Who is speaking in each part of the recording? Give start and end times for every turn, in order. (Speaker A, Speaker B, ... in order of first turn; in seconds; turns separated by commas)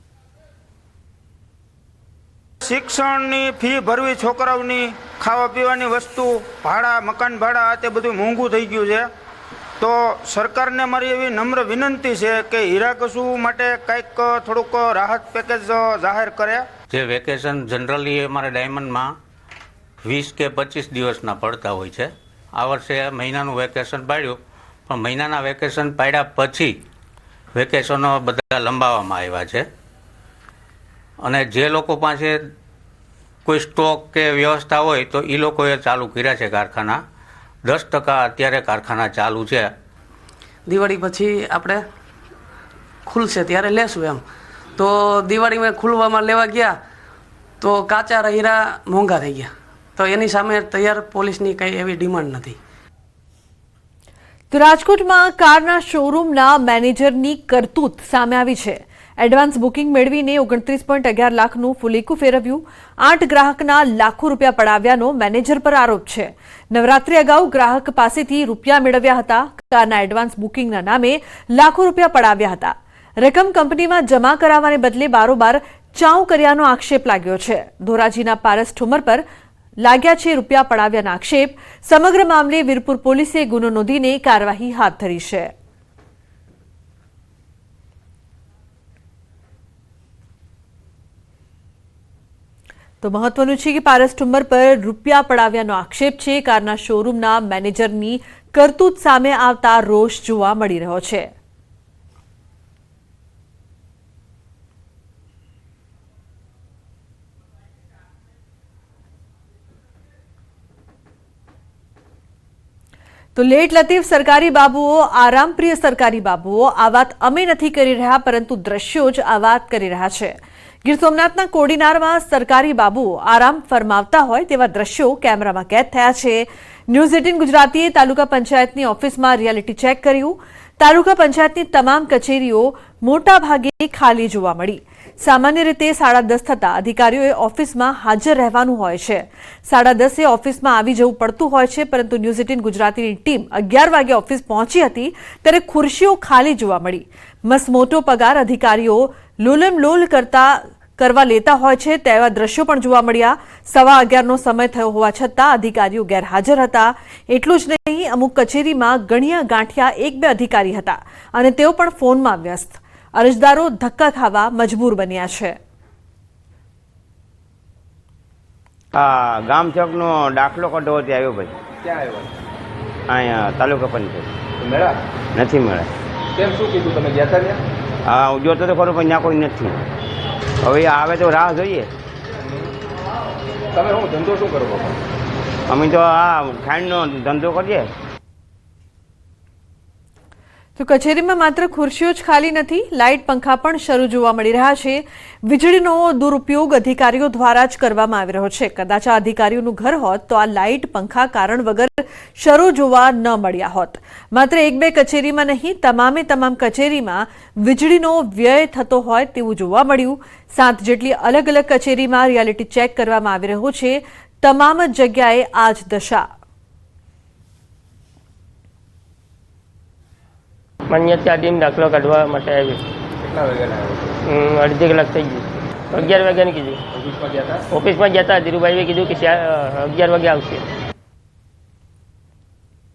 Speaker A: 2.6-9.1, Speaker A: 9.8-16.7, Speaker B: 16.9-19.1, Speaker B: 20.1-26.7, Speaker B: 27.5-29.6, Speaker B: 31.2-32.4, Speaker B: 33.5-37.0, Speaker B: 37.6-39.7, Speaker C: 40.6-41.9, Speaker C: 43.0-44.2, Speaker C: 44.7-46.8, Speaker C: 47.6-52.6, Speaker D: 54.5-79.2, Speaker D: 79.8-85.5, Speaker D: 93.0-101.3, Speaker D: 113.4-165.6, Speaker E: 168.9-171.5, Speaker F: 171.8-172.3, Speaker E: 173.1-174.3, Speaker F: 174.6-175.0, Speaker E: 175.3-175.9, Speaker F: 176.3-177.6, Speaker E: 178.1-179.8, Speaker E: 180.6-181.9, Speaker F: 183.7-184.9, Speaker E: 185.7-187.9, Speaker D: 190.8-216.3, Speaker G: 220.9-222.8, Speaker F: 223.2-224.2, Speaker G: 224.3-226.8, Speaker F: 226.9-227.6, Speaker G: 227.7-230.6